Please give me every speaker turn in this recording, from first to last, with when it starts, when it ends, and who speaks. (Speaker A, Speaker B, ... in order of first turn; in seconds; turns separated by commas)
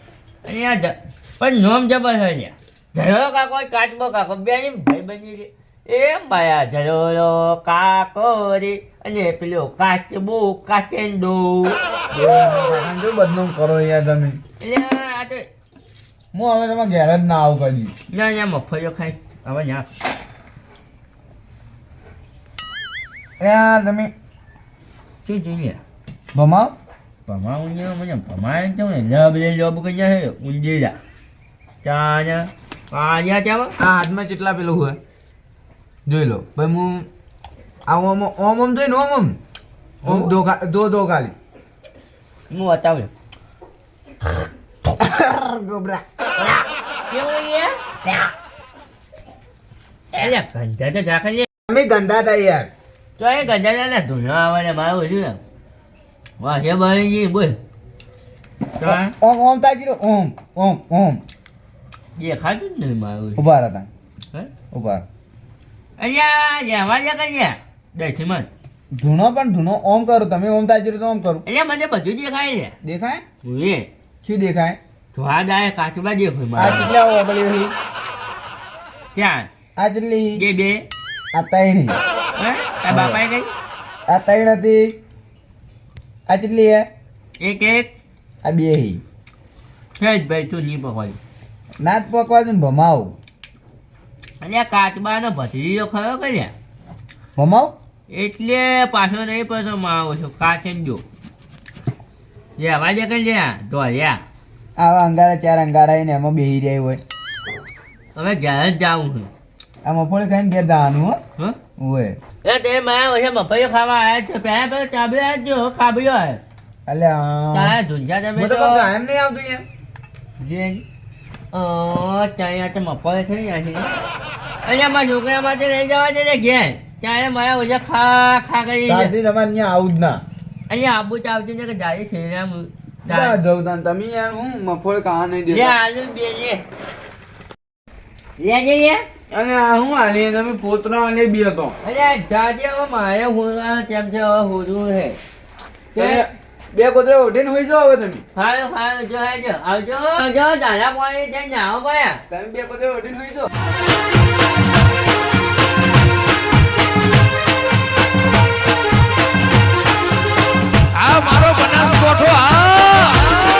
Speaker A: 0.4-12.8, Speaker B: 12.1-14.4, Speaker A: 14.6-15.5, Speaker B: 16.3-17.9, Speaker A: 18.1-19.9, Speaker B: 23.4-24.1, Speaker A: 25.2-25.8, Speaker B: 26.3-26.7, Speaker A: 27.3-30.9, Speaker A: 31.8-33.7, Speaker B: 33.8-35.0, Speaker B: 36.0-37.1, Speaker B: 37.9-39.4, Speaker A: 40.0-40.3, Speaker B: 40.0-41.3, Speaker A: 42.5-43.1, Speaker B: 44.9-46.6, Speaker A: 47.1-47.7, Speaker A: 50.1-51.5, Speaker B: 51.7-52.7, Speaker A: 53.2-55.4, Speaker A: 56.4-57.6, Speaker A: 58.8-59.1, Speaker B: 58.8-61.2, Speaker A: 62.2-63.5, Speaker B: 63.4-63.9, Speaker B: 64.7-65.0, Speaker A: 66.0-68.5, Speaker B: 68.9-71.4, Speaker A: 71.5-72.7, Speaker B: 72.8-73.2, Speaker A: 73.4-73.9, Speaker B: 74.2-74.8, Speaker A: 75.1-76.9, Speaker B: 76.5-77.7, Speaker A: 79.1-79.5, Speaker B: 79.8-80.4, Speaker A: 80.3-80.8, Speaker B: 81.3-82.0, Speaker A: 82.4-83.5, Speaker B: 82.9-83.2, Speaker B: 84.1-85.0, Speaker B: 86.3-86.9, Speaker A: 87.4-87.9, Speaker B: 88.4-89.0, Speaker A: 90.0-91.2, Speaker B: 91.8-93.1, Speaker A: 94.4-96.5, Speaker B: 97.3-97.7, Speaker A: 98.1-101.0, Speaker A: 102.6-104.2, Speaker B: 104.8-107.0, Speaker A: 108.1-109.3, Speaker B: 109.8-111.2, Speaker B: 111.8-112.2, Speaker A: 112.4-116.4, Speaker B: 116.9-117.8, Speaker A: 117.5-118.9, Speaker B: 118.3-119.6, Speaker A: 120.4-120.8, Speaker A: 121.5-124.0, Speaker A: 124.6-129.1, Speaker B: 128.8-130.2, Speaker A: 130.7-133.4, Speaker B: 133.1-135.8, Speaker A: 135.5-136.6, Speaker A: 138.4-139.0, Speaker B: 139.3-141.8, Speaker A: 141.8-145.2, Speaker A: 145.9-146.3, Speaker B: 145.9-148.2, Speaker A: 148.3-152.2, Speaker B: 152.3-153.5, Speaker C: 161.0-163.2